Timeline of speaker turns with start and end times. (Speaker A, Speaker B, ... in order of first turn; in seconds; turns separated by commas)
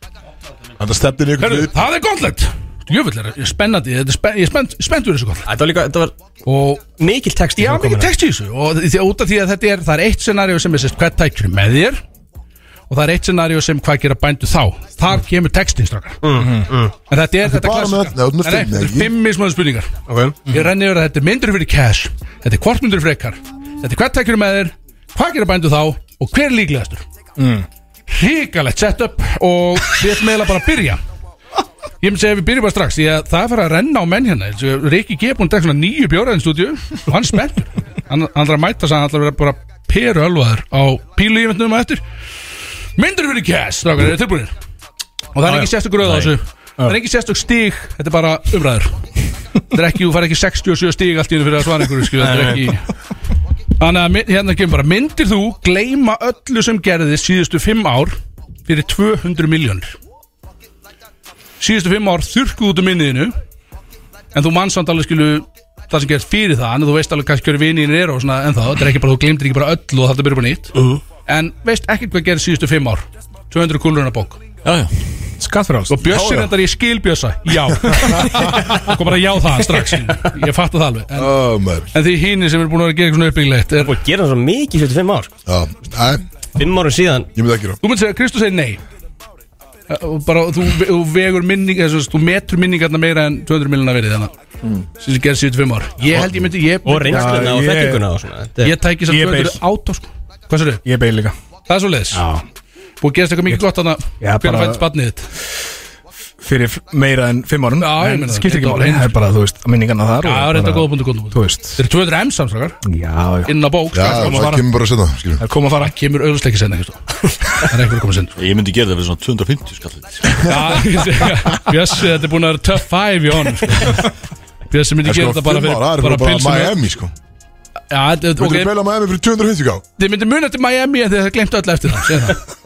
Speaker A: 0.8-1.9, Speaker B: 1.4-5.5, Speaker C: 5.5-6.1, Speaker B: 6.5-6.8, Speaker C: 7.0-8.1, Speaker B: 7.5-12.0, Speaker B: 12.9-16.2, Speaker C: 16.2-16.9, Speaker D: 16.4-16.7, Speaker B: 17.1-19.9, Speaker A: 17.4-19.1, Speaker C: 20.1-20.6, Speaker B: 20.5-27.0, Speaker D: 27.4-27.6, Speaker B: 28.1-31.0, Speaker B: 32.0-42.0, Speaker B: 43.0-44.5, Speaker B: 45.3-49.0, Speaker B: 49.7-52.8, Speaker D: 52.3-52.6, Speaker B: 53.8-58.1, Speaker B: 58.7-59.9, Speaker B: 61.6-63.3, Speaker B: 64.3-74.4, Speaker E: 74.6-74.9, Speaker D: 75.4-76.5, Speaker B: 75.9-81.3, Speaker A: 81.1-81.9, Speaker B: 81.9-83.9, Speaker C: 83.8-85.3, Speaker A: 85.5-86.2, Speaker C: 86.5-87.3, Speaker A: 87.3-87.8, Speaker B: 87.8-88.8, Speaker B: 89.9-94.3, Speaker B: 95.0-97.5, Speaker C: 96.8-98.8, Speaker D: 97.1-98.1, Speaker B: 98.6-100.8, Speaker D: 99.0-99.6, Speaker D: 100.8-101.3, Speaker B: 101.7-102.2, Speaker D: 102.1-102.4, Speaker B: 103.0-105.3, Speaker D: 104.2-104.8, Speaker D: 106.4-111.8, Speaker B: 107.8-109.1, Speaker B: 110.2-112.8, Speaker D: 112.8-113.5, Speaker B: 113.5-114.5, Speaker A: 113.9-115.4, Speaker D: 114.0-114.7, Speaker D: 115.4-115.9, Speaker B: 115.8-118.3, Speaker E: 118.4-120.4, Speaker B: 120.4-124.0, Speaker B: 124.7-126.8, Speaker A: 125.0-127.1, Speaker B: 127.9-128.7, Speaker A: 128.4-129.8, Speaker B: 130.0-132.4